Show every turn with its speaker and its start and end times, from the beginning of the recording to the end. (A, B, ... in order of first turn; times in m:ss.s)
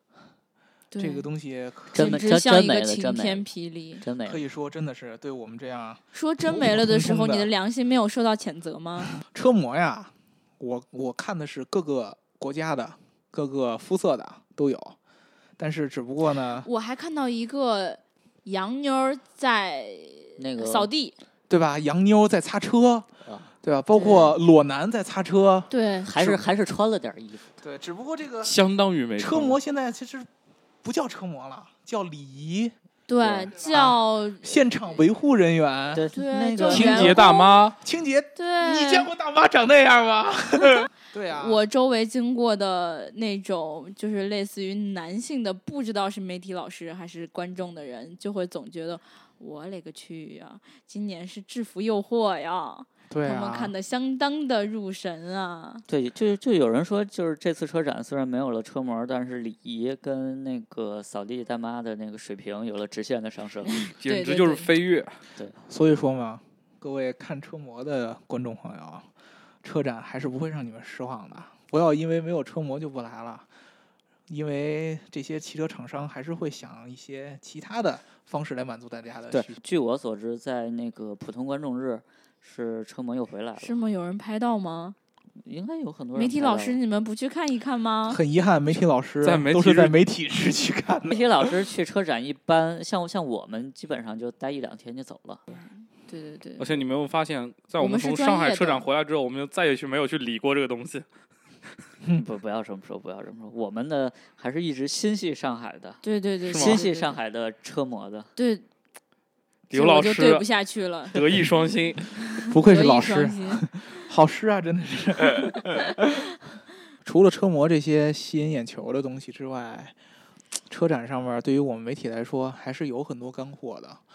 0:00.9-0:01.3 A
0:01.0-0:02.3 B
0:01.9-0:03.5 C
0:01.9-0:04.0 A
0:04.0-0:04.4 C
0:04.2-0:07.5 B
0:06.1-0:09.1 A
0:09.2-0:15.0 B
0:15.6-0:16.7 B
0:16.6-0:21.2 A
0:20.4-0:20.9 C
0:21.5-0:23.1 B
0:23.2-0:23.5 C
0:23.6-0:26.4 B
0:23.9-0:24.4 A
0:25.7-0:26.1 A
0:26.0-0:27.5 C
0:27.6-0:28.6 B
0:28.4-0:29.6 D
0:29.2-0:30.3 B
0:30.8-0:32.8 B
0:33.1-0:34.7 A
0:33.2-0:33.6 C
0:33.5-0:36.1 B
0:36.0-0:37.2 C
0:36.1-0:37.7 A
0:36.7-0:37.8 D
0:37.8-0:41.6 B
0:38.4-0:39.1 A
0:41.3-0:55.8 A
0:53.1-0:53.7 B
0:55.9-1:03.8 C
1:03.7-1:04.7 A
1:03.9-1:05.2 D
1:05.6-1:09.1 B
1:09.6-1:13.5 B
1:14.3-1:19.6 B
1:19.3-1:23.8 C
1:23.6-1:25.0 A
1:25.4-1:26.8 C
1:26.2-1:28.2 A
1:28.1-1:31.4 B
1:29.2-1:30.0 D
1:31.0-1:35.4 C
1:35.5-1:36.8 A
1:36.6-1:41.1 D
1:37.8-1:38.8 A
1:42.2-1:48.3 C
1:46.0-1:47.2 A
1:46.5-1:46.9 D
1:48.4-1:48.6 A
1:49.7-1:50.5 D
1:49.7-1:51.2 A
1:51.1-1:52.1 D
1:52.3-1:53.7 A
1:52.5-1:56.3 B
1:57.0-2:00.0 B
2:00.7-2:04.0 B